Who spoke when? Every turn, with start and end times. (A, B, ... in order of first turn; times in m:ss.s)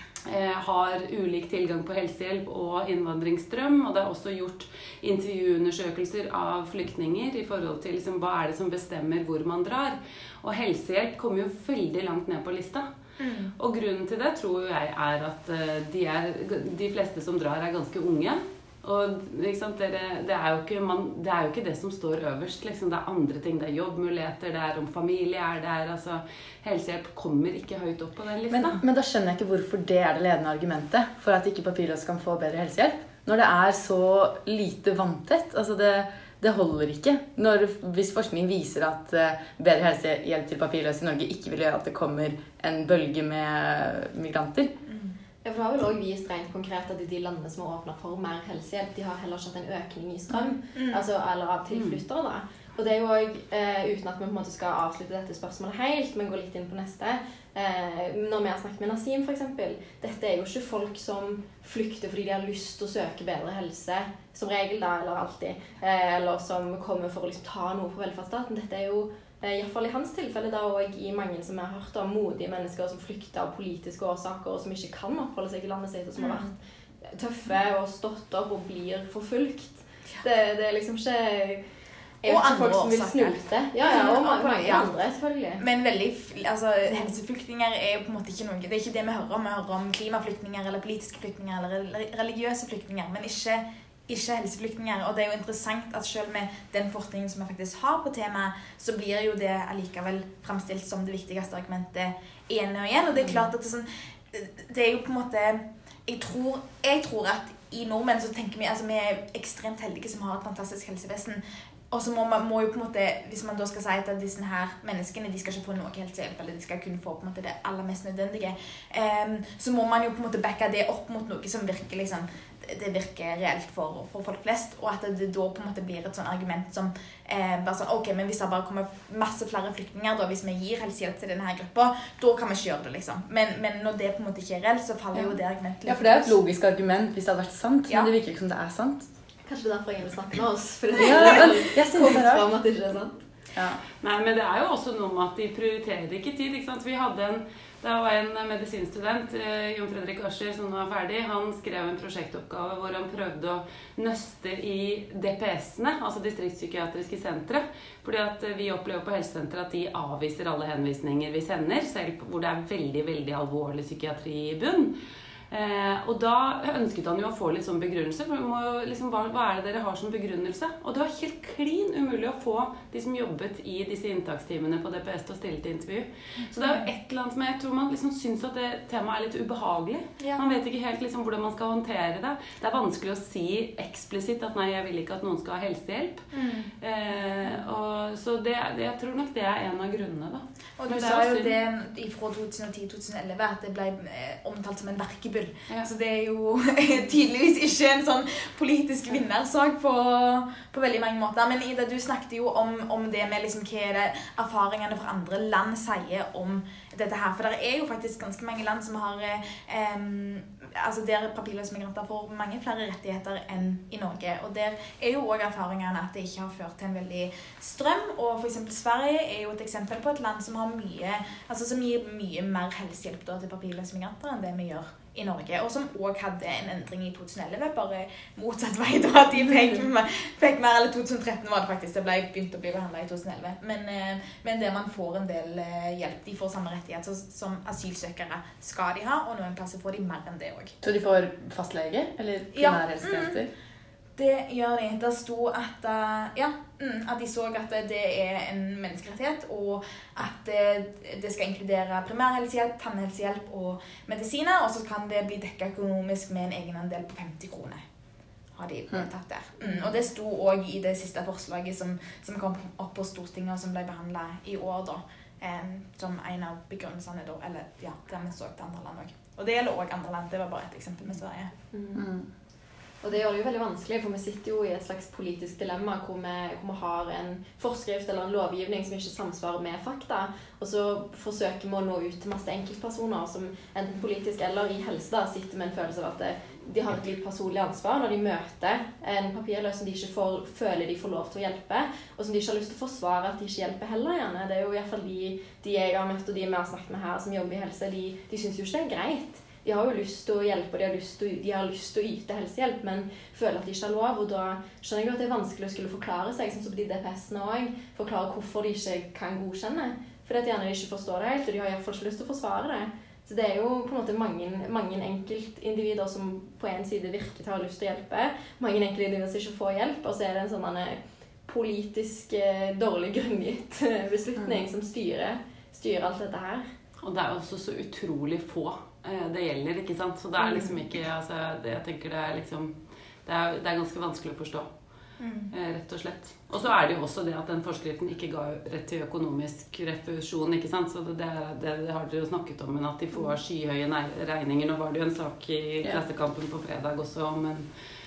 0:00.2-0:12.9 A
0:13.2-0:13.5 B
0:13.6-0:28.8 A
0:28.5-0:44.7 C
0:44.8-0:45.2 B
0:45.4-1:21.6 D
0:50.7-0:51.0 B
1:16.2-1:16.5 B
1:22.2-1:25.6 D
1:22.2-1:24.9 B
1:25.6-2:16.4 B
2:15.1-2:19.1 C
2:19.4-2:23.2 D
2:20.9-2:22.4 C
2:23.5-2:23.8 C
2:24.0-2:44.9 A
2:45.5-3:06.3 A
2:56.6-2:56.9 B
3:06.3-3:06.7 B
3:06.8-3:11.6 A
3:10.8-4:00.8 B
4:00.8-4:03.5 C
4:02.5-4:03.5 B
4:04.2-4:17.8 B
4:18.6-4:31.5 B
4:31.7-4:32.1 D
4:32.0-4:32.3 C
4:33.0-5:26.7 D
5:27.0-5:34.7 A
5:35.2-5:35.5 B
5:35.5-5:47.7 A